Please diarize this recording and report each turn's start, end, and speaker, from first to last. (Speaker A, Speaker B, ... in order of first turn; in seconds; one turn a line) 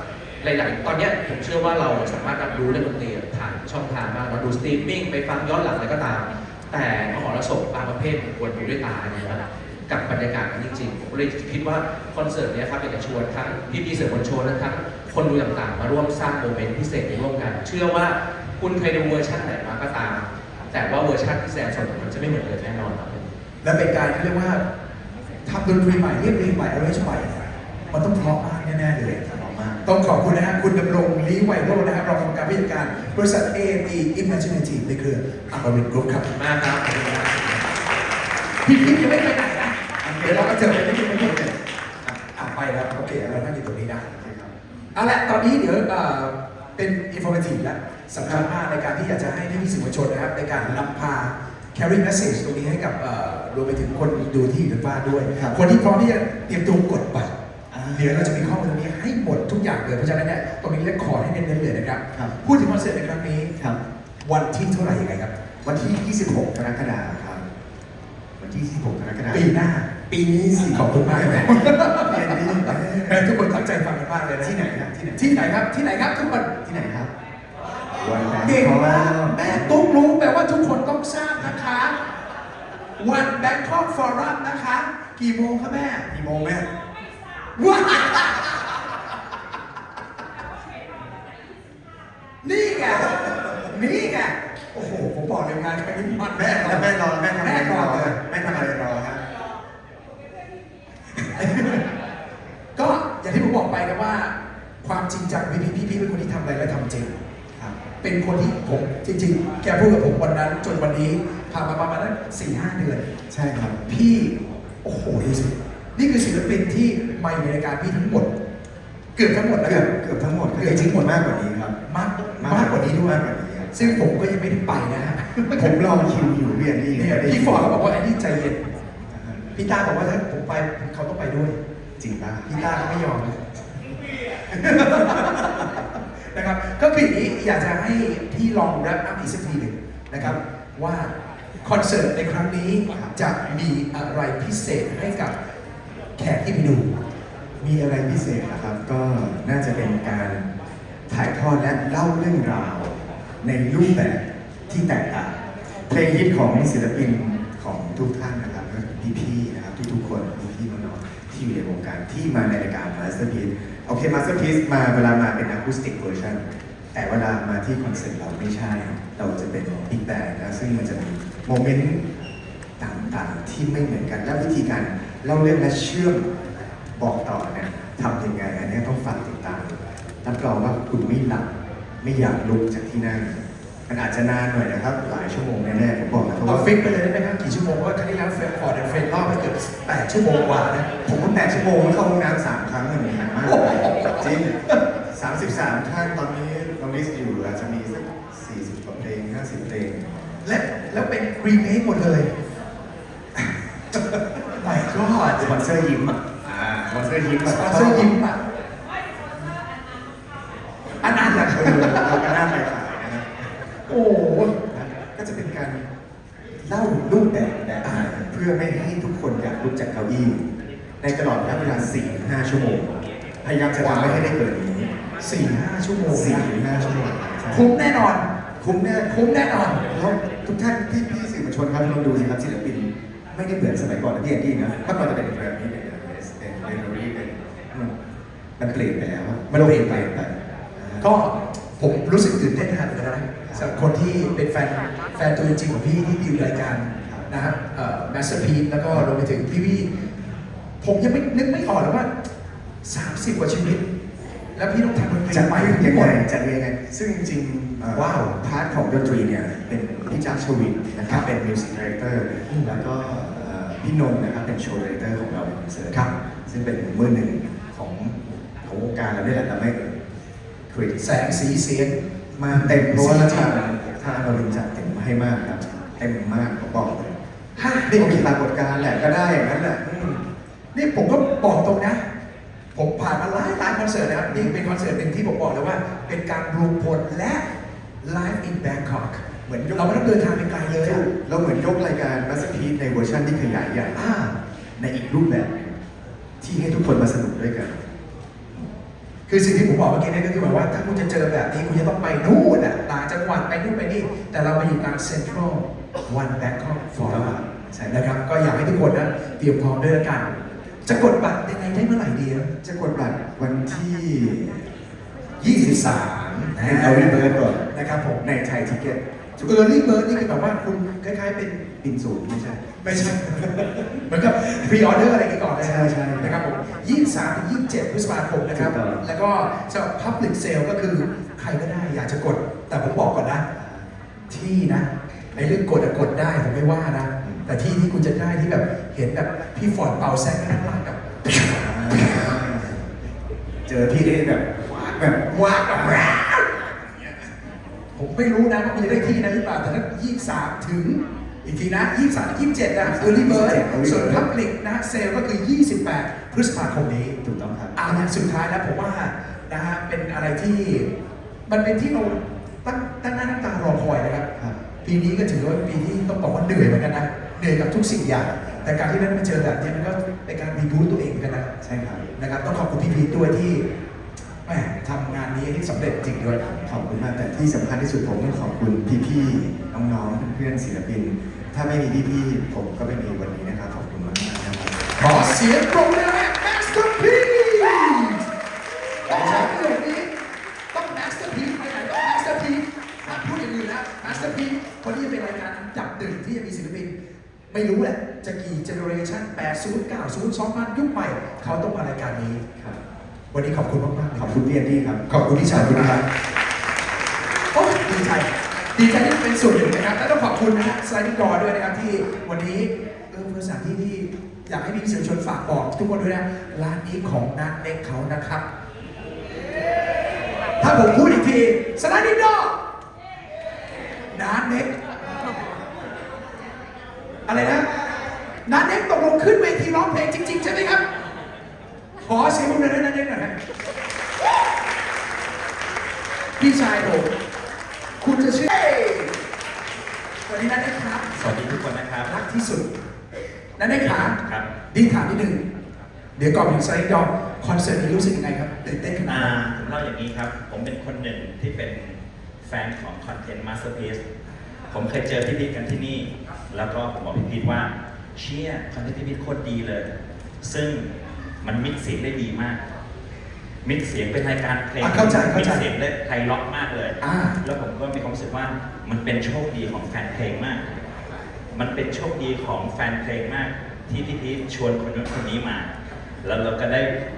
Speaker A: 0.4-23.3
Speaker B: 23.6-24.6
Speaker B: 25.4-27.3
Speaker B: 27.9-29.2
Speaker C: 29.2-29.8
Speaker B: 29.8-37.2
Speaker A: 36.4-37.6
Speaker B: 38.6-41.4
Speaker C: 40.0-42.3
Speaker B: 42.4-44.0
Speaker C: 43.1-43.5
Speaker C: 44.0-44.5
Speaker B: 44.9-57.3
Speaker C: 48.2-48.5
Speaker C: 50.5-50.8
Speaker C: 57.7-58.6
Speaker B: 57.9-63.5
Speaker B: 64.2-65.3
Speaker C: 65.6-67.4
Speaker C: 68.4-69.5
Speaker B: 69.3-69.9
Speaker C: 70.1-73.4
Speaker B: 70.7-74.5
Speaker C: 74.4-75.6
Speaker B: 75.2-76.5
Speaker C: 76.4-77.1
Speaker C: 77.9-79.9
Speaker B: 78.4-82.0
Speaker B: 83.0-86.1
Speaker C: 86.1-86.7
Speaker B: 87.6-88.8
Speaker B: 92.4-98.7
Speaker C: 92.9-93.6
Speaker C: 96.3-99.2
Speaker C: 101.2-101.5
Speaker B: 101.3-101.8
Speaker B: 102.8-107.1
Speaker B: 108.0-113.1
Speaker C: 113.3-114.0
Speaker B: 113.9-118.3
Speaker B: 119.2-119.9
Speaker C: 119.6-121.8
Speaker B: 120.5-121.1
Speaker B: 121.9-123.2
Speaker C: 122.4-124.0
Speaker B: 123.7-125.7
Speaker C: 125.5-127.8
Speaker B: 126.9-128.7
Speaker C: 129.0-129.5
Speaker B: 129.5-131.6
Speaker C: 132.0-132.5
Speaker B: 132.4-133.5
Speaker B: 134.5-141.1
Speaker C: 135.0-135.5
Speaker B: 141.6-145.3
Speaker B: 146.2-146.9
Speaker C: 147.6-150.5
Speaker C: 151.1-172.0
Speaker C: 172.8-176.3
Speaker C: 177.0-187.0
Speaker B: 186.4-191.0
Speaker C: 191.0-194.6
Speaker B: 193.4-194.8
Speaker C: 195.1-200.5
Speaker B: 200.4-202.3
Speaker B: 204.6-205.7
Speaker C: 205.3-208.1
Speaker B: 207.4-208.4
Speaker B: 211.0-212.3
Speaker C: 211.0-213.6
Speaker B: 213.9-214.6
Speaker C: 214.7-215.8
Speaker C: 216.6-224.9
Speaker B: 217.8-218.1
Speaker B: 223.8-224.3
Speaker B: 225.2-226.5
Speaker C: 226.1-227.7
Speaker B: 227.5-228.3
Speaker C: 228.6-229.2
Speaker B: 229.1-229.8
Speaker C: 229.8-237.9
Speaker C: 238.6-241.1
Speaker B: 239.5-240.1
Speaker B: 241.0-250.0
Speaker C: 243.4-243.8
Speaker C: 247.0-247.3
Speaker B: 250.8-252.1
Speaker B: 252.8-253.8
Speaker B: 254.5-256.1
Speaker C: 255.3-270.1
Speaker B: 257.9-258.4
Speaker B: 262.5-262.7
Speaker C: 270.7-271.3
Speaker B: 271.0-272.0
Speaker C: 272.4-277.2
Speaker B: 272.5-273.5
Speaker B: 277.6-278.2
Speaker C: 277.9-280.2
Speaker B: 280.7-282.1
Speaker B: 282.7-287.4
Speaker C: 284.2-284.5
Speaker B: 288.0-291.0
Speaker C: 289.4-290.1
Speaker C: 290.8-295.8
Speaker C: 296.4-297.8
Speaker B: 299.3-307.3
Speaker C: 307.0-308.0
Speaker B: 307.9-312.5
Speaker C: 312.6-314.7
Speaker B: 315.4-318.2
Speaker C: 315.4-319.0
Speaker B: 319.4-321.7
Speaker C: 321.7-324.7
Speaker B: 322.8-333.4
Speaker C: 325.6-326.4
Speaker C: 328.5-329.0
Speaker C: 333.5-333.9
Speaker B: 334.3-342.4
Speaker C: 337.2-337.5
Speaker C: 341.6-342.9
Speaker C: 343.6-347.3
Speaker B: 345.3-346.2
Speaker B: 347.9-357.2
Speaker C: 352.8-354.3
Speaker C: 357.2-358.0
Speaker B: 357.8-360.9
Speaker B: 361.5-364.2
Speaker C: 364.3-364.6
Speaker B: 364.8-371.5
Speaker C: 368.5-368.8
Speaker C: 371.6-372.1
Speaker B: 372.2-373.6
Speaker B: 374.4-376.6
Speaker C: 376.6-384.9
Speaker B: 385.0-388.2
Speaker C: 389.1-389.5
Speaker B: 389.1-390.1
Speaker B: 390.7-396.9
Speaker C: 393.0-393.3
Speaker C: 394.0-394.3
Speaker B: 397.5-402.4
Speaker C: 402.5-402.8
Speaker B: 403.3-404.4
Speaker C: 404.1-406.0
Speaker B: 405.1-406.0
Speaker B: 407.5-418.4
Speaker B: 420.6-422.6
Speaker B: 424.1-424.7
Speaker B: 427.2-427.7
Speaker B: 428.4-430.8
Speaker B: 432.0-433.4
Speaker B: 436.4-437.1
Speaker B: 438.0-439.1
Speaker B: 440.3-441.1
Speaker D: 441.1-442.1
Speaker B: 442.1-442.7
Speaker B: 443.6-444.1
Speaker D: 443.8-444.5
Speaker B: 444.7-445.4
Speaker B: 446.1-449.3
Speaker D: 449.1-454.0
Speaker D: 454.7-459.9
Speaker D: 460.4-460.9
Speaker D: 461.4-462.6
Speaker D: 463.6-470.8
Speaker B: 464.8-465.6
Speaker B: 467.0-467.4
Speaker D: 471.5-475.7
Speaker D: 476.2-476.9